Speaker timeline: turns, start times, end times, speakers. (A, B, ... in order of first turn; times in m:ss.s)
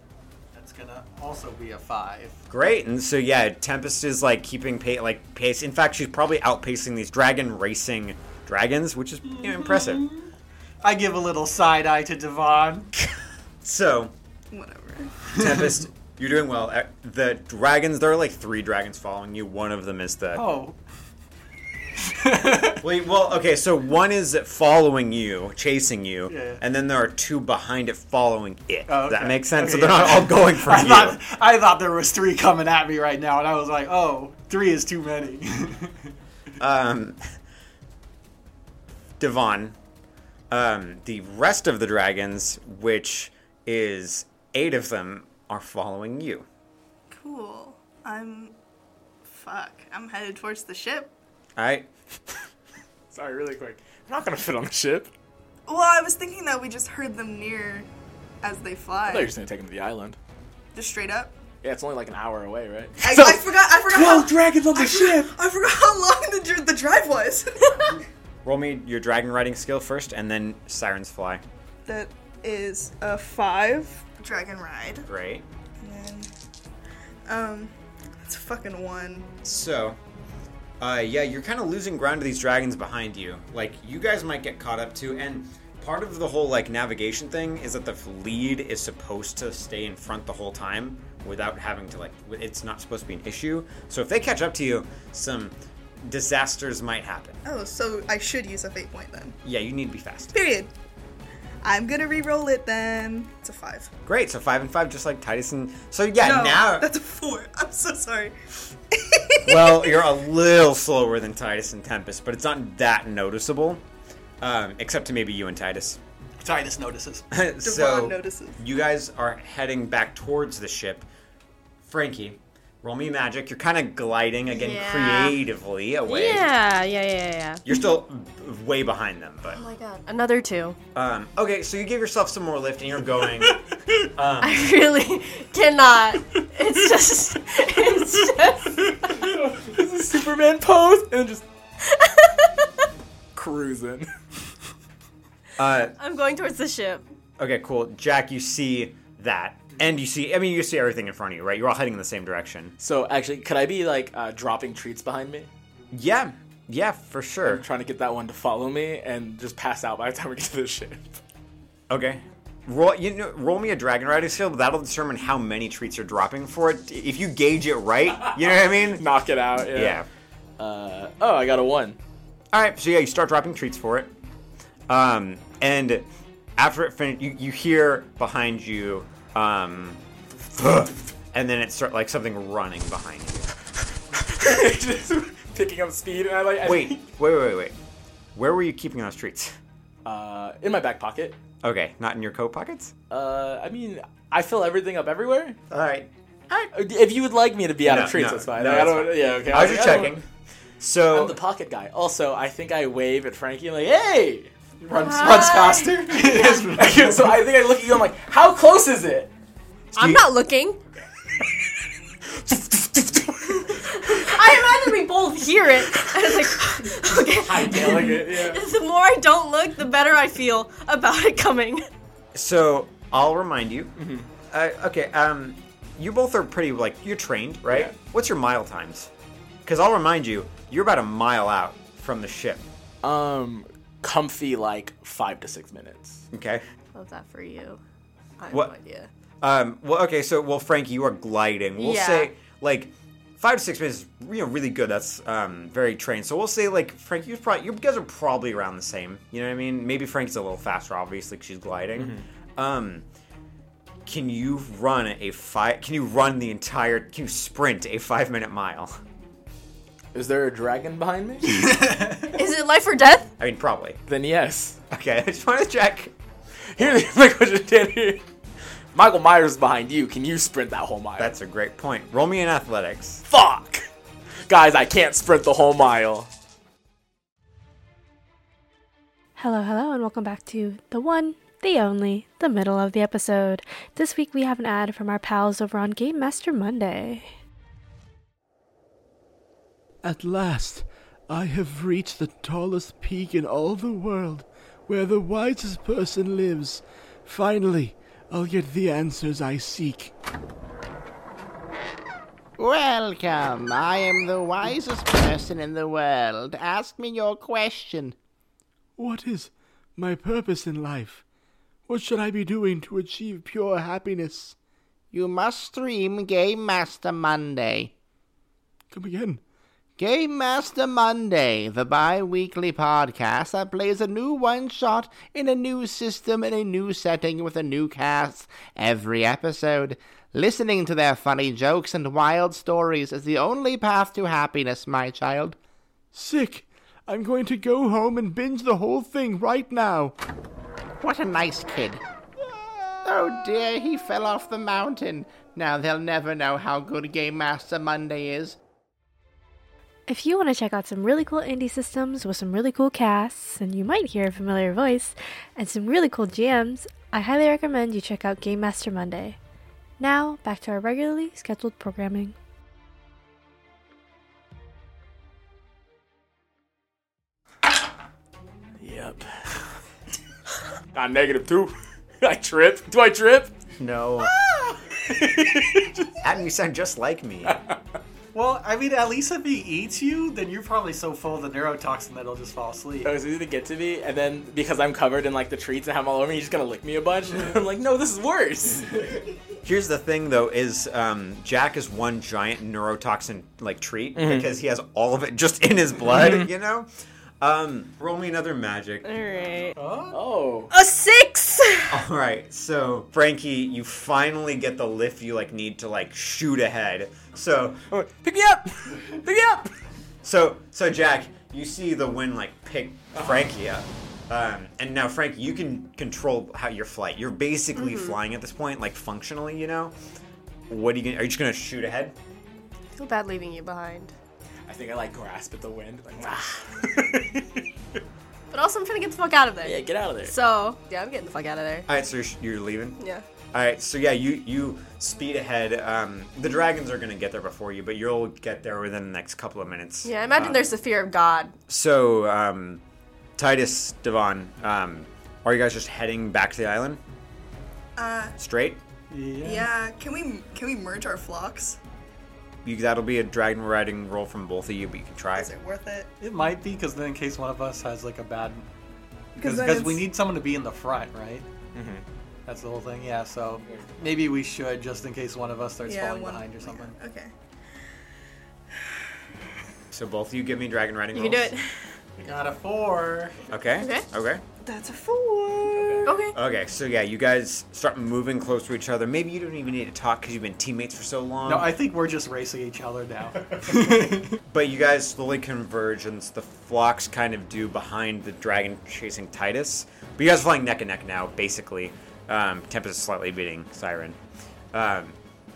0:00.5-0:02.4 A
0:02.5-0:10.1 B
0:09.3-0:10.3 A
0:10.8-0:12.9 A
0:13.6-0:14.1 B
0:14.5-0:15.2 C
0:15.3-0:20.4 B
0:20.3-0:20.8 A
0:22.0-0:22.8 A
0:22.8-0:31.2 B
0:26.3-0:26.6 A
0:28.9-0:36.1 A
0:36.6-0:37.2 B
0:39.2-0:39.8 B
0:40.5-0:46.5 B
0:47.1-0:48.5 C
0:49.2-0:51.1 C
0:51.6-0:51.9 B
0:53.1-0:55.1 D
0:55.7-0:57.9 C
0:58.4-0:59.3 C
0:59.1-1:00.2 D
1:00.7-1:01.3 C
1:01.6-1:05.3 D
1:03.0-1:08.0 C
1:08.4-1:11.4 B
1:11.8-1:15.1 C
1:15.0-1:15.4 B
1:15.8-1:16.3 C
1:17.3-1:17.7 C
1:18.2-1:19.3 C
1:19.4-1:20.0 B
1:20.8-1:37.4 B
1:37.4-1:39.4 C
1:39.4-1:40.4 B
1:40.3-1:40.7 C
1:41.6-1:43.9 C
1:44.0-1:46.9 B
1:46.2-1:48.3 C
1:48.9-1:50.0 C
1:49.4-1:53.8 B
1:54.4-1:56.0 B
1:56.4-1:57.3 A
1:57.3-2:01.1 B
1:57.6-1:58.6 C
2:01.8-2:06.5 B
2:04.5-2:05.4 E
2:06.1-2:07.6 E
2:07.6-2:09.6 B
2:09.5-2:10.8 E
2:10.9-2:14.6 B
2:14.4-2:19.3 E
2:19.1-2:21.4 D
2:21.8-2:22.8 E
2:23.3-2:24.1 D
2:25.6-2:25.9 B
2:26.0-2:27.0 E
2:27.4-2:32.7 B
2:32.8-2:35.5 D
2:35.9-2:37.6 B
2:37.4-2:41.2 D
2:41.9-2:49.0 B
2:48.2-2:50.0 D
2:49.7-2:50.1 B
2:50.6-2:52.0 D
2:52.5-2:54.1 B
2:54.9-3:00.0 B
3:00.5-3:03.5 B
3:04.1-3:07.0 D
3:06.6-3:07.7 B
3:08.3-3:09.6 B
3:10.0-3:11.4 D
3:11.6-3:12.9 B
3:13.1-3:15.6 D
3:15.7-3:16.7 B
3:16.7-3:20.2 D
3:17.8-3:20.2 B
3:20.8-3:21.4 B
3:21.1-3:24.5 D
3:24.8-3:27.4 A
3:24.9-3:26.6 E
3:26.7-3:29.3 D
3:29.9-3:30.2 B
3:29.9-3:30.8 E
3:32.3-3:34.4 D
3:33.8-3:41.8 E
3:37.3-3:38.6 D
3:42.3-3:44.0 B
3:44.0-3:44.3 D
3:44.5-3:49.1 B
3:47.7-3:47.9 D
3:49.6-3:52.6 B
3:53.0-3:56.2 D
3:56.3-3:56.6 B
3:56.9-3:57.8 E
3:58.4-3:59.1 E
3:59.4-4:13.0 B
4:01.8-4:02.3 E
4:11.9-4:12.2 D
4:14.0-4:19.0 B
4:20.1-4:21.8 D
4:21.6-4:22.3 A
4:22.3-4:23.3 E
4:23.4-4:24.0 B
4:24.1-4:24.8 D
4:24.9-4:26.1 B
4:26.8-4:28.2 D
4:28.9-4:31.3 D
4:31.2-4:33.2 B
4:33.3-4:33.8 D
4:34.5-4:36.3 D
4:39.4-4:47.3 F
4:50.0-5:00.1 G
5:02.6-5:08.1 H
5:09.0-5:11.2 G
5:11.9-5:14.6 G
5:15.1-5:17.9 H
5:18.9-5:19.4 G
5:20.0-5:35.6 H
5:36.1-5:40.1 G
5:41.0-5:42.0 H
5:43.0-5:48.6 H
5:50.1-5:59.4 F
6:00.0-6:02.4 F
6:08.8-6:09.6 D
6:10.9-6:13.5 D
6:13.8-6:14.3 B
6:14.9-6:16.2 D
6:16.2-6:17.6 B
6:17.4-6:17.8 D
6:18.3-6:23.1 A
6:23.0-6:29.0 D
6:29.6-6:36.9 B
6:34.1-6:34.5 D
6:36.1-6:36.5 D
6:37.4-6:39.1 B
6:39.0-6:39.7 E
6:39.8-6:40.2 A
6:40.1-6:40.7 D
6:40.7-6:42.0 E
6:41.9-6:47.8 B
6:47.9-6:49.7 D
6:50.2-6:59.9 B
6:53.1-6:53.5 D
6:57.8-6:58.1 E
7:00.7-7:02.1 B
7:03.0-7:04.1 E
7:04.7-7:08.0 D
7:08.5-7:11.9 E
7:09.6-7:10.3 D
7:11.9-7:13.0 B
7:13.0-7:13.2 E
7:13.5-7:20.7 B
7:20.0-7:21.6 E
7:21.7-7:22.8 B
7:23.4-7:27.0 B
7:28.0-7:28.4 C
7:28.4-7:28.8 B
7:29.1-7:29.7 A
7:29.4-7:31.8 C
7:32.6-7:35.5 B
7:35.3-7:36.1 C
7:36.2-7:38.6 A
7:39.4-7:40.1 C
7:39.4-7:41.4 A
7:41.7-7:42.0 D
7:42.4-7:47.0 A
7:45.8-7:47.3 C
7:49.9-7:51.5 B
7:51.1-7:51.8 E
7:52.2-7:53.4 A
7:53.5-7:54.4 B
7:53.8-7:54.0 E
7:54.6-7:56.1 C
7:55.8-7:56.0 D
7:56.0-7:56.4 E
7:56.3-8:01.7 B
8:01.4-8:04.4 A
8:04.5-8:14.2 B
8:14.7-8:15.2 B